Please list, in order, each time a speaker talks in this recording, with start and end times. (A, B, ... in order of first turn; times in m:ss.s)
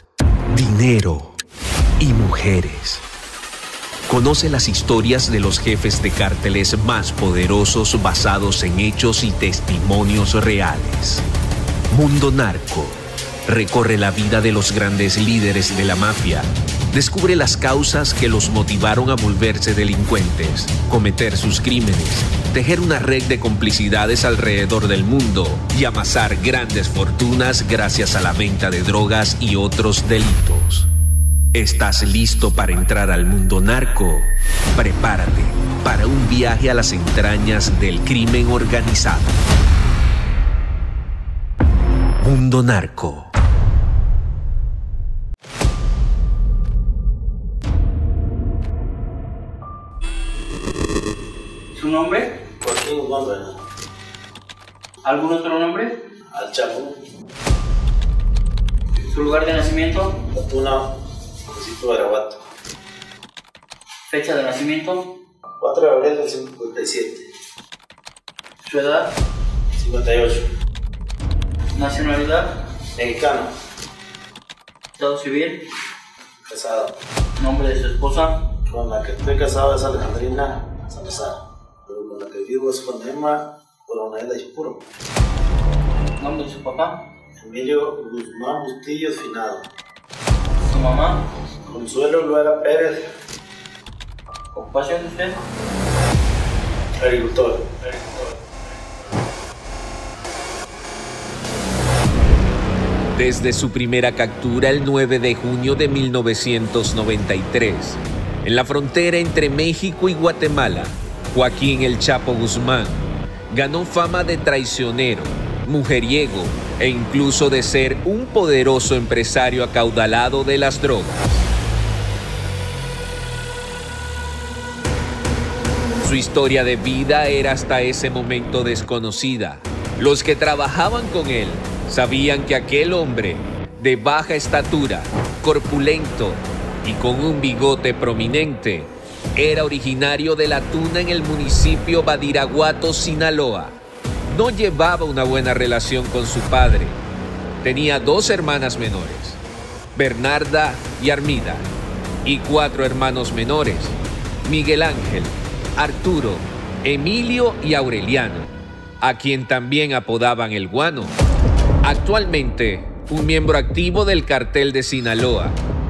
0:00.5-0:01.3 A
0:02.0-0:03.0 A
0:04.1-0:11.2 A
0:11.9-0:30.9 A
0:31.5-0:39.4 A
0:42.2-0:43.3 A
0:51.7-0:52.4 B
0:52.6-0:53.6 C
0:55.0-0:56.0 B
0:56.3-0:57.0 C
0:59.0-1:00.2 B
1:00.3-1:00.9 C
1:01.5-1:02.4 C
1:04.1-1:05.1 B
1:05.6-1:07.3 C
1:08.6-1:09.1 B
1:09.7-1:10.4 C
1:11.7-1:12.5 B
1:13.0-1:13.5 C
1:15.0-1:15.6 B
1:16.4-1:16.9 C
1:17.4-1:18.4 B
1:18.7-1:24.8 C
1:26.2-1:27.0 B
1:27.4-1:29.6 C
1:30.6-1:31.2 B
1:31.7-1:33.0 C
1:34.5-1:35.4 B
1:37.0-1:38.4 C
1:43.1-2:01.4 A
2:06.0-2:23.8 A
2:24.3-2:27.0 A
2:27.6-2:29.4 A
2:29.9-2:31.7 A
2:32.2-2:41.2 A
2:41.8-2:45.6 A